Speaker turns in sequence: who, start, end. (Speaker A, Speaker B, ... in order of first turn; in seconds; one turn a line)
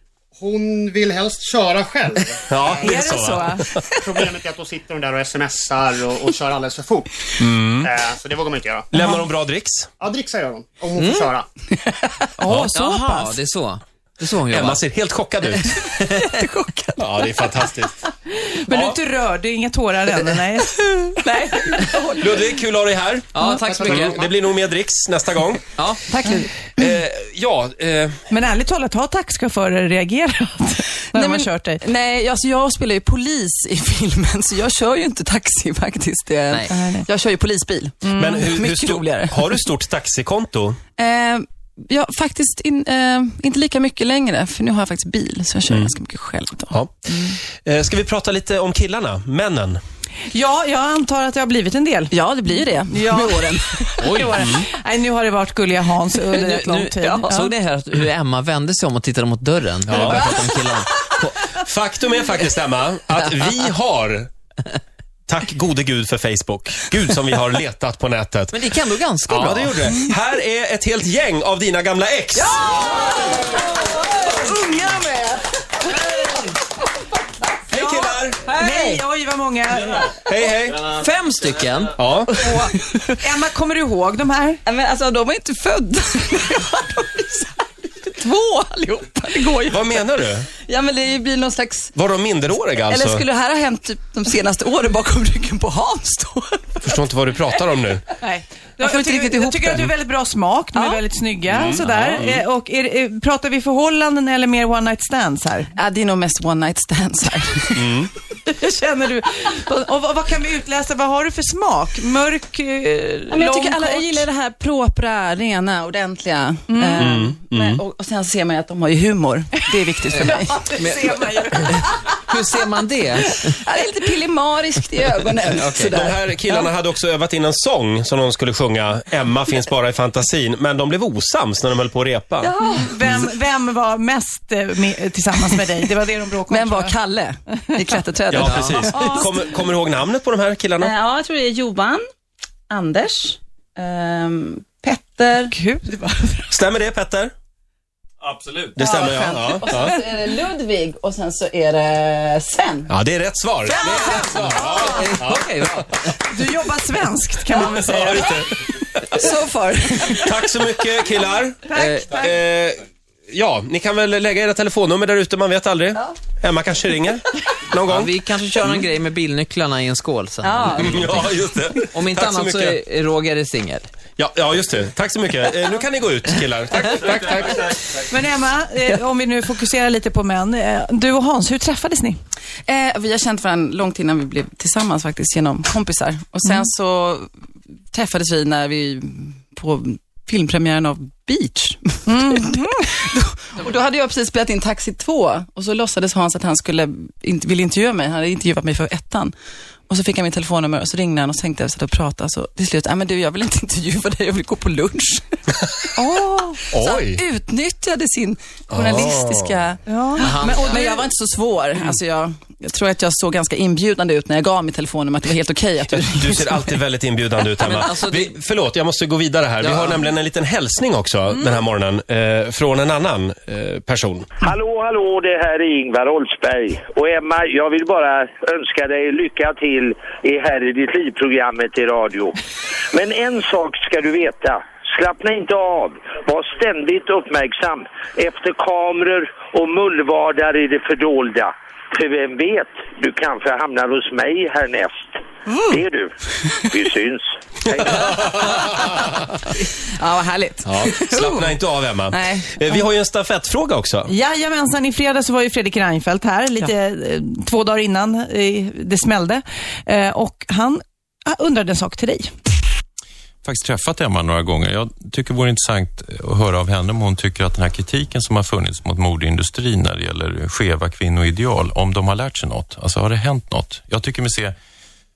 Speaker A: 0.4-2.9
Speaker B: 2.5-3.7
Speaker C: 2.8-3.7
Speaker A: 4.0-7.1
Speaker B: 7.4-8.0
Speaker A: 7.8-8.9
Speaker B: 8.9-9.9
Speaker A: 10.0-11.5
Speaker D: 11.0-11.3
Speaker E: 11.8-12.3
Speaker C: 12.4-13.4
Speaker B: 12.5-12.7
Speaker D: 12.7-14.8
Speaker B: 14.5-15.7
Speaker E: 15.7-17.4
Speaker B: 17.0-18.0
Speaker C: 18.3-21.9
Speaker E: 21.2-22.6
Speaker B: 22.2-25.8
Speaker D: 23.3-24.2
Speaker A: 23.7-24.2
Speaker E: 26.1-26.5
Speaker B: 26.7-28.2
Speaker C: 28.3-31.8
Speaker E: 31.1-39.6
Speaker C: 36.7-37.1
Speaker C: 38.0-38.5
Speaker B: 38.1-40.8
Speaker E: 41.0-46.8
Speaker B: 46.7-49.8
Speaker C: 50.3-52.1
Speaker E: 52.1-54.2
Speaker C: 52.9-57.5
Speaker D: 54.0-54.4
Speaker B: 54.1-54.7
Speaker D: 56.3-60.9
Speaker B: 59.9-60.5
Speaker B: 61.2-64.3
Speaker B: 65.3-68.6
Speaker D: 68.5-69.8
Speaker B: 69.3-72.6
Speaker E: 72.5-75.4
Speaker C: 72.7-73.0
Speaker C: 74.3-75.0
Speaker B: 77.7-78.4
Speaker C: 77.7-80.1
Speaker E: 78.5-79.0
Speaker B: 80.3-80.9
Speaker D: 80.7-82.0
Speaker B: 82.0-82.3
Speaker C: 82.4-84.6
Speaker E: 84.7-90.1
Speaker B: 89.7-90.5
Speaker E: 90.6-91.9
Speaker B: 92.0-93.2
Speaker E: 92.8-97.0
Speaker B: 96.8-98.0
Speaker C: 98.2-105.7
Speaker E: 98.8-99.9
Speaker E: 100.7-101.0
Speaker B: 101.5-102.4
Speaker E: 105.8-108.0
Speaker B: 107.8-108.1
Speaker C: 108.3-114.3
Speaker E: 113.3-121.1
Speaker C: 116.7-117.1
Speaker B: 117.0-117.8
Speaker C: 120.1-121.9
Speaker D: 122.3-123.5
Speaker E: 123.5-126.7
Speaker D: 125.5-126.0
Speaker B: 125.9-132.5
Speaker E: 132.4-132.9
Speaker C: 132.6-136.9
Speaker E: 136.5-139.3
Speaker B: 138.3-140.9
Speaker D: 138.4-138.8
Speaker C: 138.9-139.3
Speaker E: 140.8-142.0
Speaker E: 142.7-145.6
Speaker C: 145.5-146.5
Speaker B: 146.5-147.3
Speaker B: 148.2-149.9
Speaker E: 148.8-152.9
Speaker B: 152.9-155.4
Speaker C: 153.7-155.1
Speaker D: 153.8-156.2
Speaker C: 156.2-158.4
Speaker B: 157.6-158.5
Speaker E: 159.2-160.4
Speaker B: 160.1-168.8
Speaker C: 161.7-162.4
Speaker D: 167.9-171.3
Speaker E: 170.4-171.7
Speaker B: 170.7-172.8
Speaker D: 171.9-173.9
Speaker B: 174.2-177.9
Speaker C: 178.1-182.2
Speaker E: 182.7-187.3
Speaker E: 187.9-199.3
Speaker C: 192.1-193.1
Speaker E: 199.9-205.4
Speaker C: 206.0-206.6
Speaker B: 206.7-207.2
Speaker E: 206.7-216.8
Speaker B: 208.7-209.6
Speaker C: 209.9-210.9
Speaker D: 210.2-210.9
Speaker B: 215.9-224.3
Speaker D: 217.6-218.3
Speaker D: 219.6-220.0
Speaker F: 224.4-232.3
Speaker F: 232.9-248.5
Speaker E: 249.9-252.6
Speaker B: 250.7-254.1
Speaker C: 254.1-262.3
Speaker G: 263.4-274.6